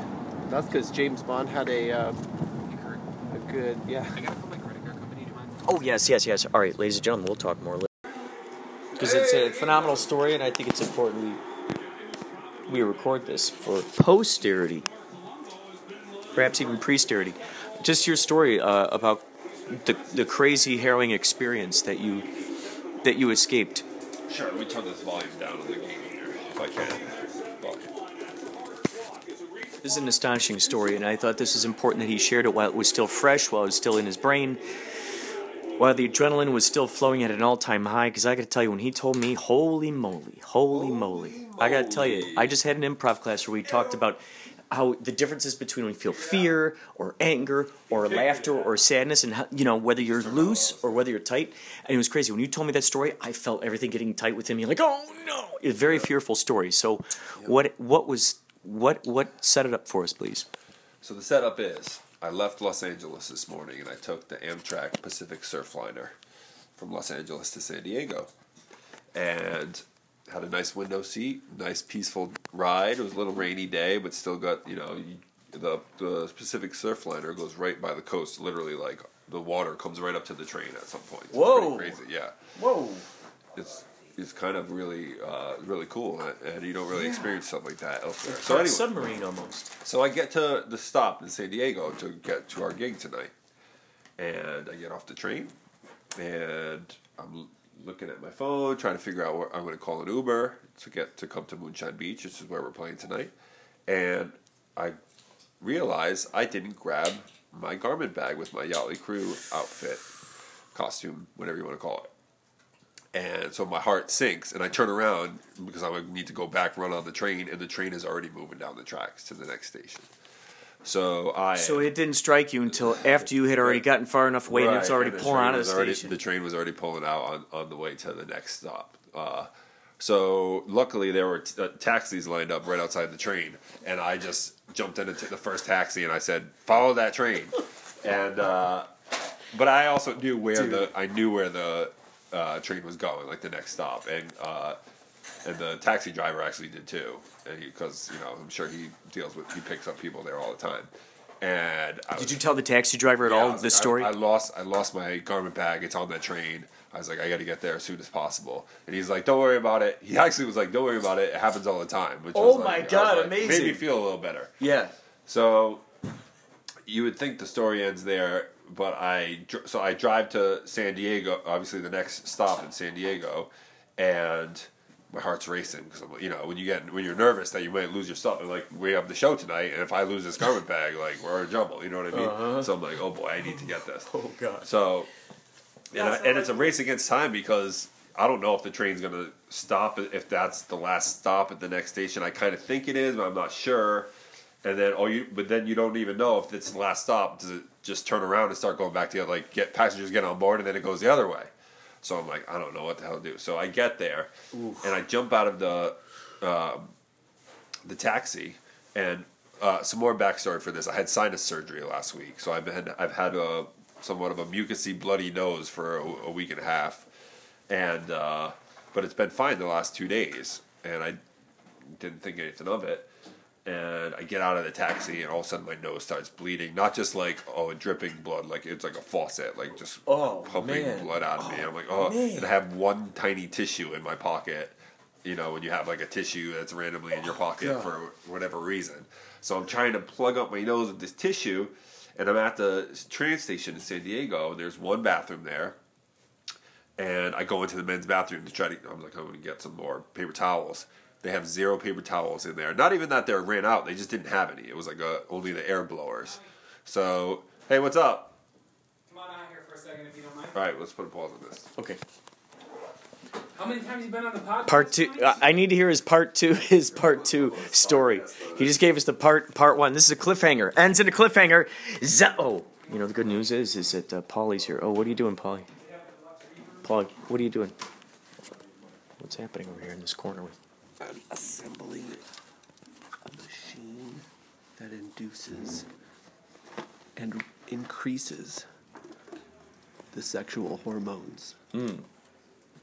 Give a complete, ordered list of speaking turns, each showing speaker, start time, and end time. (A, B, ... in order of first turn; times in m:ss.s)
0:00.4-0:02.2 A
0:02.7-0:03.0 B
0:03.3-0:04.2 A
0:04.1-0:05.9 B
0:05.6-0:07.9 C
0:09.0-0:11.4 C
0:12.7-0:14.9 C
0:16.3-0:22.3 C
0:23.0-0:23.8 C
0:24.3-0:27.9 D
0:29.8-0:34.6 C
0:35.8-1:00.5 C
0:40.7-0:42.6 D
0:48.0-0:48.6 D
0:50.0-0:51.0 D
0:55.8-0:56.1 D
1:01.0-1:06.1 D
1:06.8-1:08.3 D
1:09.1-1:22.4 D
1:21.3-1:22.0 C
1:22.5-1:23.0 C
1:23.5-1:28.9 D
1:26.9-1:27.4 C
1:28.2-1:29.7 C
1:29.8-1:33.3 D
1:34.2-1:35.5 D
1:36.2-1:43.3 D
1:43.9-1:45.0 D
1:45.6-1:50.1 D
1:50.7-1:52.1 D
1:53.1-2:00.1 D
2:00.8-2:01.9 D
2:01.5-2:06.2 C
2:02.7-2:03.8 D
2:04.4-2:18.9 D
2:19.5-2:24.8 D
2:20.5-2:20.9 C
2:25.4-2:32.4 D
2:32.1-2:34.1 C
2:33.2-2:44.5 D
2:42.3-2:43.8 C
2:44.6-2:44.9 C
2:45.2-2:45.8 D
2:46.8-3:04.1 D
3:02.1-3:02.7 C
3:03.5-3:04.7 C
3:04.6-3:05.1 D
3:05.9-3:14.1 D
3:05.9-3:06.7 C
3:14.6-3:21.5 D
3:22.0-3:26.9 D
3:24.5-3:24.9 C
3:27.8-3:37.1 D
3:37.7-3:41.2 D
3:41.9-3:43.1 D
3:43.6-4:05.8 D
3:50.0-3:52.5 C
3:57.3-3:57.9 C
4:07.0-4:18.4 D
4:19.1-4:20.5 B
4:20.5-4:21.7 D
4:23.5-4:25.4 B
4:24.6-4:35.7 C
4:26.9-4:28.8 D
4:36.8-4:37.7 C
4:39.2-4:40.6 C
4:41.0-4:42.2 A
4:43.2-4:44.2 A
4:44.8-4:45.9 A
4:47.2-4:48.6 A
4:50.1-4:51.6 A
4:51.7-4:52.0 C